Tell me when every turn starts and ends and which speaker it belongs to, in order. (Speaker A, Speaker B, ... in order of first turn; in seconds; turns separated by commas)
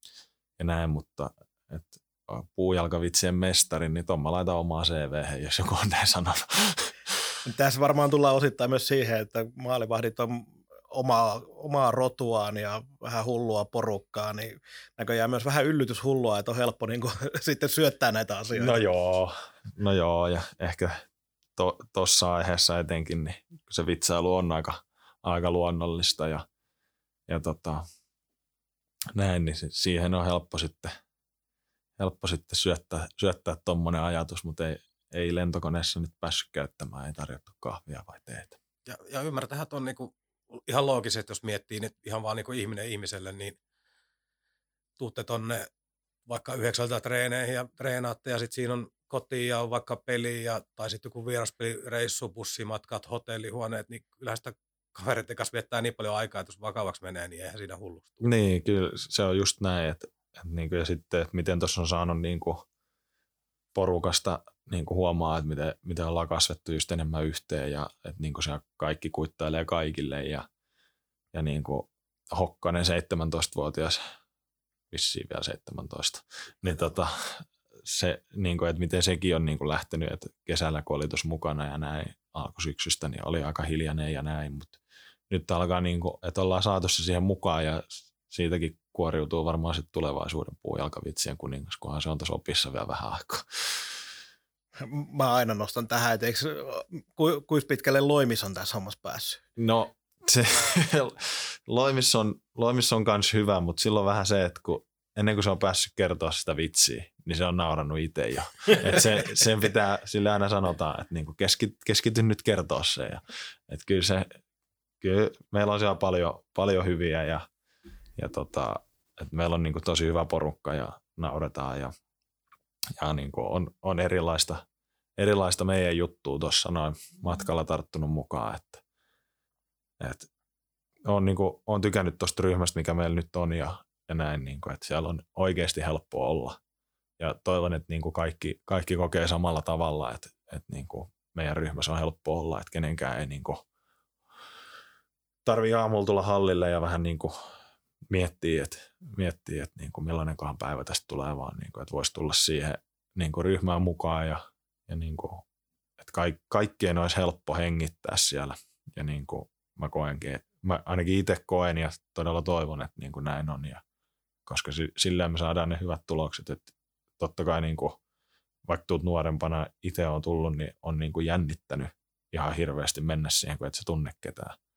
Speaker A: 0.6-7.1, Speaker B: 7.4-18.8, Speaker A: 18.5-21.0, Speaker A: 21.6-26.4, Speaker A: 27.3-27.8, Speaker A: 29.1-30.9, Speaker A: 32.0-38.6, Speaker C: 38.9-43.6, Speaker C: 45.0-45.7, Speaker C: 46.3-58.3, Speaker A: 58.2-62.6, Speaker A: 63.7-70.5, Speaker A: 71.3-74.0, Speaker A: 74.9-84.8, Speaker A: 85.3-93.8, Speaker B: 94.8-99.4, Speaker A: 99.6-114.3, Speaker A: 115.0-117.5, Speaker A: 118.2-121.9, Speaker A: 123.0-124.6, Speaker A: 125.2-128.8, Speaker A: 130.0-130.3, Speaker A: 131.0-136.6, Speaker A: 137.2-143.6, Speaker A: 145.4-147.3, Speaker A: 148.1-155.4, Speaker A: 156.0-163.8, Speaker A: 164.4-168.0, Speaker A: 168.7-174.6